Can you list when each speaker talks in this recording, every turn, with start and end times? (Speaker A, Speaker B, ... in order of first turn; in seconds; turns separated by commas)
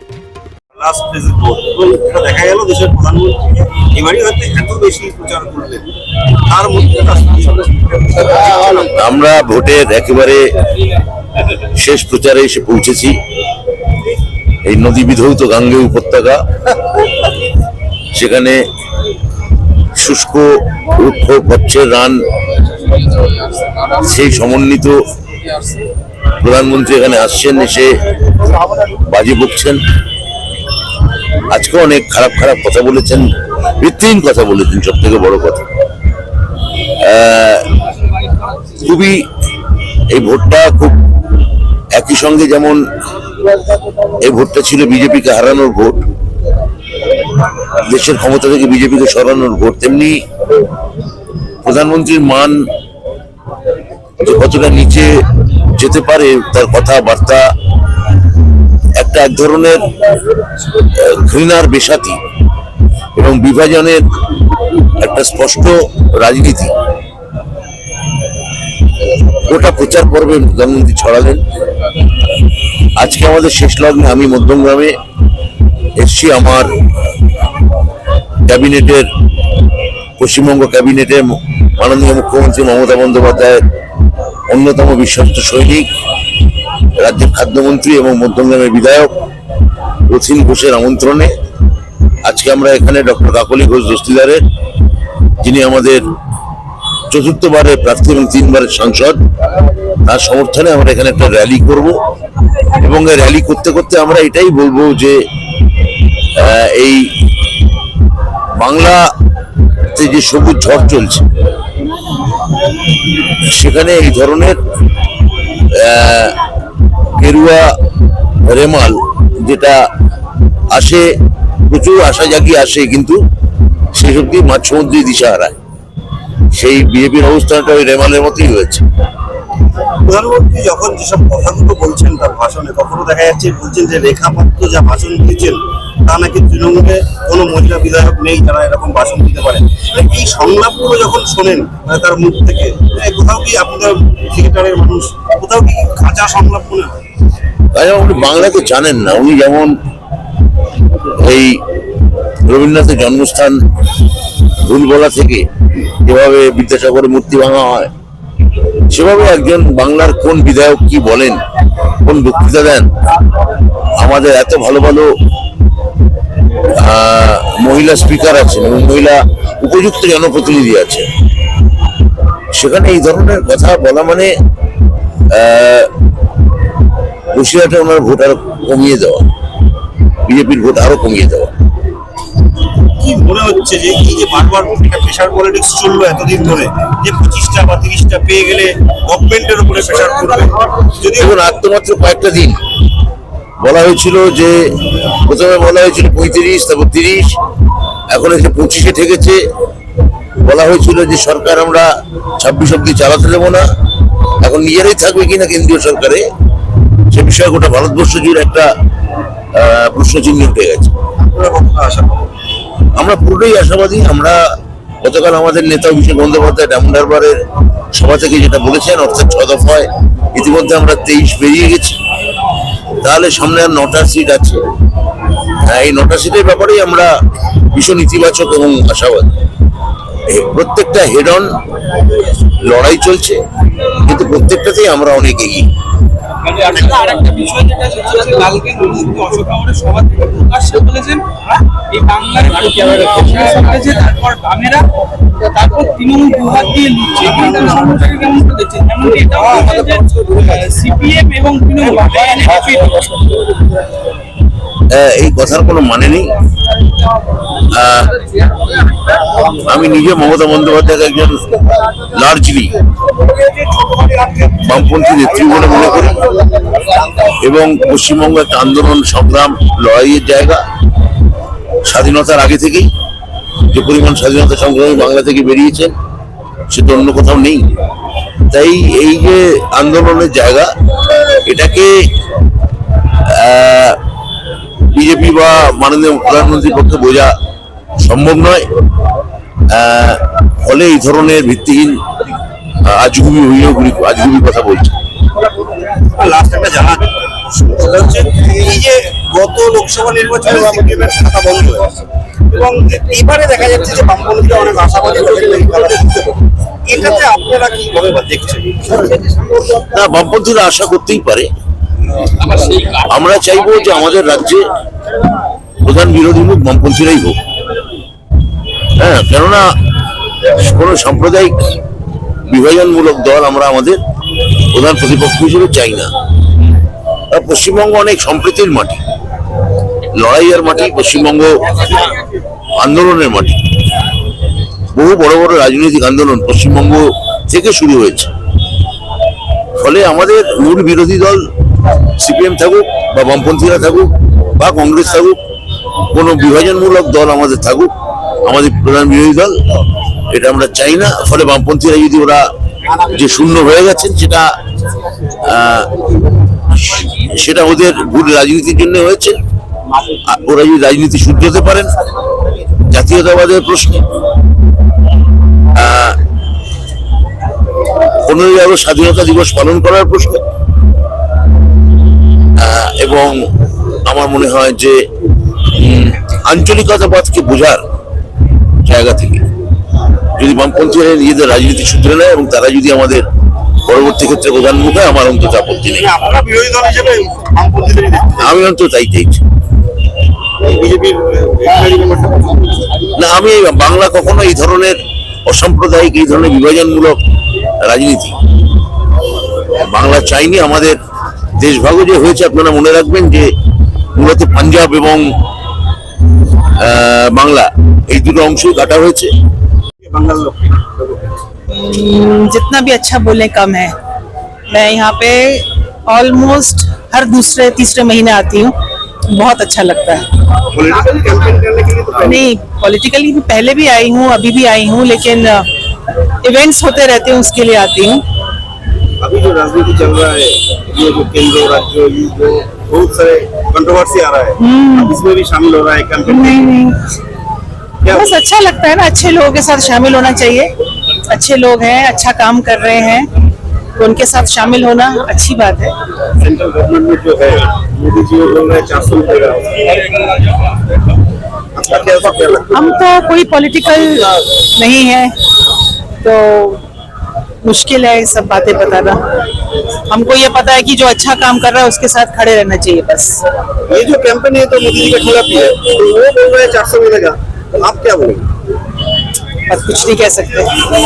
Speaker A: 0.7-5.8, Speaker A: 6.5-8.9, Speaker B: 8.9-10.4, Speaker B: 11.8-13.2, Speaker B: 14.6-16.4, Speaker B: 18.1-18.6, Speaker B: 19.9-22.2, Speaker B: 23.7-25.0, Speaker B: 26.4-27.9, Speaker B: 28.8-29.8, Speaker B: 31.5-33.3, Speaker B: 33.8-35.6, Speaker B: 37.0-37.8, Speaker B: 38.8-39.2, Speaker B: 40.1-41.0, Speaker B: 41.9-42.8, Speaker B: 44.2-46.0, Speaker B: 47.8-50.2, Speaker B: 51.6-52.6, Speaker B: 54.2-55.2, Speaker B: 55.8-57.5, Speaker B: 59.0-59.9, Speaker B: 60.9-62.2, Speaker B: 63.1-64.0, Speaker B: 65.0-66.7, Speaker B: 69.5-71.4, Speaker B: 73.0-74.9, Speaker B: 76.0-76.8, Speaker B: 78.5-79.1, Speaker B: 80.2-83.6, Speaker B: 84.5-85.9, Speaker B: 87.0-89.1, Speaker B: 90.1-91.3, Speaker B: 92.2-94.4, Speaker B: 95.4-96.1, Speaker B: 97.1-99.2, Speaker B: 100.1-102.0, Speaker B: 102.8-105.2, Speaker B: 106.3-107.1, Speaker B: 108.6-109.1, Speaker B: 109.9-111.2, Speaker B: 113.4-114.6, Speaker B: 115.7-116.4, Speaker B: 117.2-117.7, Speaker B: 118.5-119.8, Speaker B: 120.7-121.1, Speaker B: 121.7-123.2, Speaker B: 123.9-125.5, Speaker B: 126.5-128.8, Speaker A: 130.0-146.9, Speaker B: 147.7-149.8, Speaker B: 151.2-151.6, Speaker B: 152.5-153.6, Speaker B: 154.6-155.5, Speaker B: 156.0-157.9, Speaker B: 158.9-161.4, Speaker B: 162.0-162.9, Speaker B: 164.0-165.1, Speaker B: 166.8-171.1, Speaker B: 172.5-174.3, Speaker B: 175.3-175.9, Speaker B: 177.3-179.2, Speaker B: 180.2-181.5, Speaker A: 183.0-191.3, Speaker B: 191.2-192.6, Speaker B: 193.6-197.3, Speaker B: 198.1-199.4, Speaker B: 200.4-203.6, Speaker B: 204.4-206.2, Speaker B: 207.1-208.7, Speaker B: 209.5-210.9, Speaker A: 211.2-212.3, Speaker B: 212.9-214.4, Speaker B: 215.0-217.4, Speaker B: 217.9-222.0, Speaker B: 223.0-224.6, Speaker B: 225.6-227.1, Speaker B: 227.7-229.3, Speaker B: 230.3-231.5, Speaker B: 232.6-233.4, Speaker B: 234.0-235.7, Speaker C: 236.4-244.8, Speaker C: 245.4-253.2, Speaker A: 247.3-247.7, Speaker B: 254.9-256.4, Speaker B: 257.7-258.3, Speaker B: 259.4-262.8, Speaker A: 263.4-264.6, Speaker B: 264.6-266.2, Speaker B: 267.2-270.6, Speaker B: 271.9-272.9, Speaker B: 273.7-275.9, Speaker B: 276.7-277.7, Speaker B: 278.5-280.7, Speaker B: 281.3-282.1, Speaker B: 283.2-284.0, Speaker B: 284.9-287.3, Speaker B: 288.0-288.7, Speaker B: 289.7-292.0, Speaker B: 292.8-294.9, Speaker A: 296.1-301.9, Speaker A: 302.5-309.1, Speaker B: 309.8-311.5, Speaker B: 312.6-314.7, Speaker B: 315.8-317.4, Speaker B: 319.0-319.7, Speaker B: 320.4-321.8, Speaker B: 322.5-324.0, Speaker B: 324.7-326.1, Speaker B: 327.3-329.0, Speaker B: 330.1-332.0, Speaker B: 332.8-333.6, Speaker B: 334.9-338.3, Speaker B: 339.8-341.5, Speaker B: 342.1-345.4, Speaker B: 346.1-347.9, Speaker B: 348.4-349.6, Speaker B: 350.3-352.5, Speaker B: 353.0-354.5, Speaker B: 355.4-355.9, Speaker B: 356.7-359.4, Speaker B: 360.2-361.9, Speaker B: 362.9-364.0, Speaker B: 365.7-366.2, Speaker B: 368.2-370.4, Speaker B: 372.6-373.4, Speaker B: 374.1-375.0, Speaker B: 375.6-377.8, Speaker B: 378.8-379.4, Speaker B: 380.4-383.2, Speaker B: 383.8-386.1, Speaker A: 385.9-388.4, Speaker B: 388.4-389.4, Speaker A: 390.6-392.8, Speaker B: 393.1-397.2, Speaker B: 397.8-398.4, Speaker B: 399.8-401.0, Speaker B: 401.6-403.5, Speaker B: 404.1-405.2, Speaker B: 406.8-409.3, Speaker A: 410.0-411.3, Speaker D: 411.7-413.9, Speaker D: 414.7-418.7, Speaker D: 419.3-420.2, Speaker A: 420.6-422.5, Speaker D: 422.2-425.6, Speaker D: 426.4-428.2, Speaker A: 429.2-436.7, Speaker D: 434.6-435.2, Speaker D: 436.3-437.0, Speaker A: 438.0-438.3, Speaker D: 438.1-440.7, Speaker D: 441.3-443.3, Speaker D: 444.0-445.9, Speaker A: 446.4-450.1, Speaker A: 451.8-452.8, Speaker D: 452.7-455.3, Speaker D: 456.2-456.8, Speaker D: 457.6-459.2, Speaker D: 460.1-463.4, Speaker A: 463.9-468.5, Speaker D: 469.7-470.8